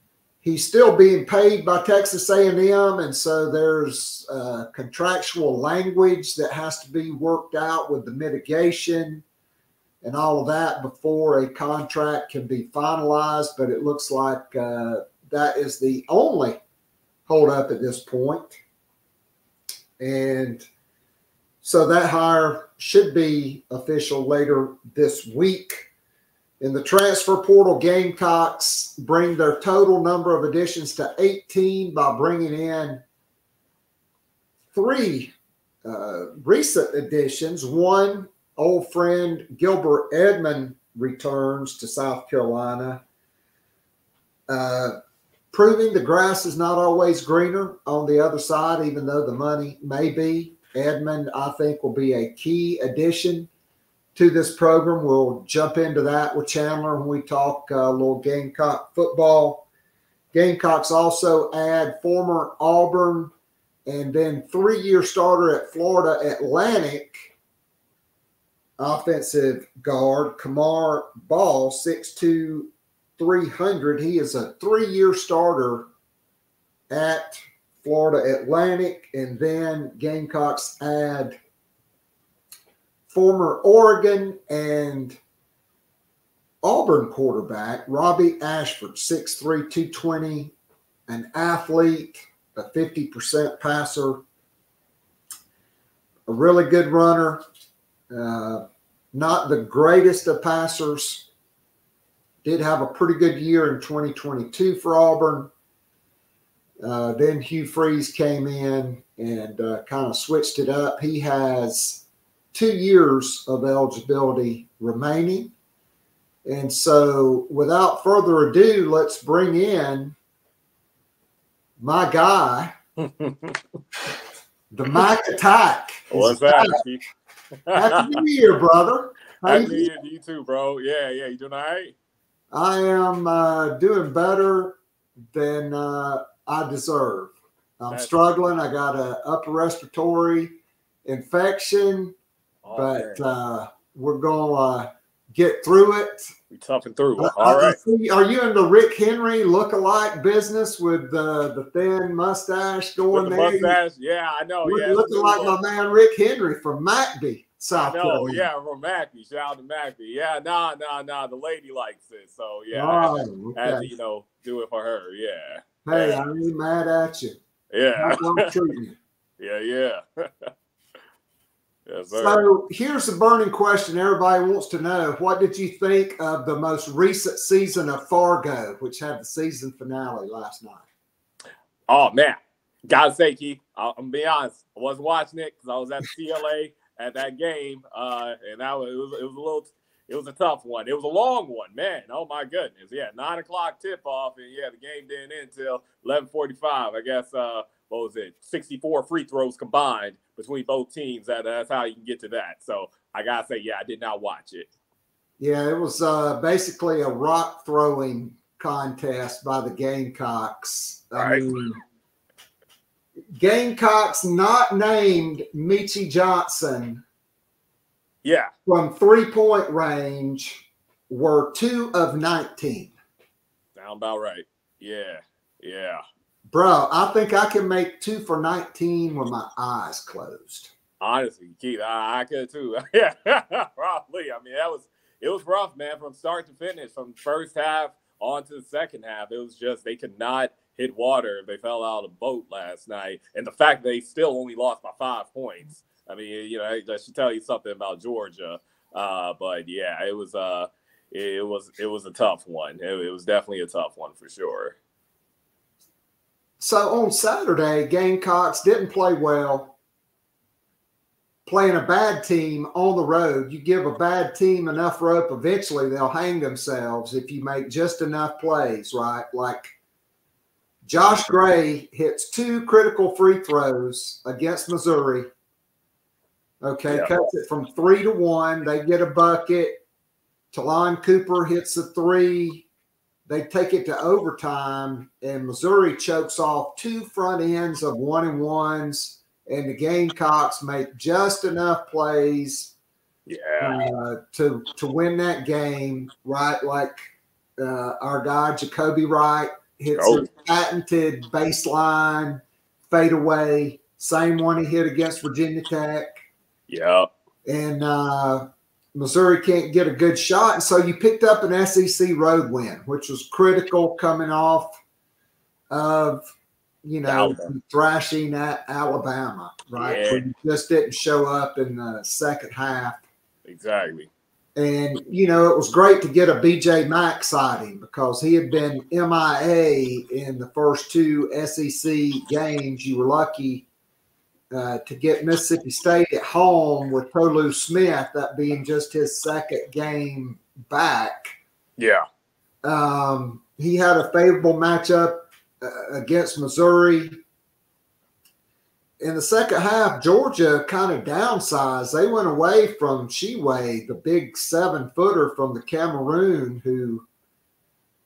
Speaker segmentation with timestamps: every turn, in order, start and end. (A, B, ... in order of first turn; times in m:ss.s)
0:00.4-0:09.2 A
0:10.0-0:16.6 A
0:17.3-0:18.6 A
0:20.0-0:20.6 A
0:21.6-0:25.8 A
0:26.6-0:33.0 A
0:34.7-0:43.0 A
0:44.5-0:45.0 A
0:45.5-0:53.5 A
0:54.1-0:59.6 A
1:00.3-1:03.3 A
1:03.8-1:07.3 A
1:08.8-1:15.9 A
1:16.9-1:21.4 A
1:23.1-1:25.2 A
1:26.6-1:30.5 A
1:31.1-1:34.2 A
1:36.3-1:37.4 A
1:38.1-1:41.3 A
1:42.4-1:45.5 A
1:46.8-1:52.0 A
1:52.5-1:55.5 A
1:56.4-2:00.2 A
2:01.8-2:02.7 A
2:03.0-2:03.6 B
2:04.7-2:06.8 A
2:06.1-2:07.0 B
2:07.7-2:08.2 B
2:07.7-2:09.9 A
2:09.4-2:11.9 B
2:12.5-2:14.8 A
2:15.3-2:22.1 A
2:22.6-2:23.3 B
2:22.7-2:26.3 A
2:26.5-2:27.8 B
2:27.2-2:33.8 A
2:33.1-2:35.6 B
2:34.6-2:38.5 A
2:37.7-2:46.2 B
2:42.7-2:43.9 A
2:45.8-2:47.4 A
2:47.7-2:48.5 B
2:48.0-2:49.0 A
2:49.4-2:50.5 B
2:51.9-2:52.4 B
2:52.1-3:00.8 A
3:01.9-3:24.7 B
3:25.4-3:31.8 A
3:31.2-3:31.5 B
3:33.4-3:37.0 A
3:38.2-3:38.5 B
3:38.6-3:42.9 A
3:43.8-3:46.0 B
3:46.5-3:50.7 A
3:51.0-4:14.7 B
4:16.6-4:19.7 A
4:21.4-4:29.7 A
4:30.8-4:35.3 A
4:36.6-4:39.8 A
4:40.5-4:42.6 A
4:43.2-4:52.7 A
4:53.3-4:53.8 B
4:53.6-4:57.0 A
4:57.6-5:06.1 A
4:59.9-5:00.3 B
5:06.7-5:07.1 B
5:07.4-5:14.8 A
5:15.7-5:16.3 A
5:16.8-5:23.0 A
5:17.0-5:17.5 B
5:19.8-5:20.3 B
5:23.4-5:24.1 B
5:24.6-5:33.6 A
5:34.5-5:41.3 A
5:41.8-5:42.0 B
5:42.6-5:47.2 A
5:49.0-5:57.0 A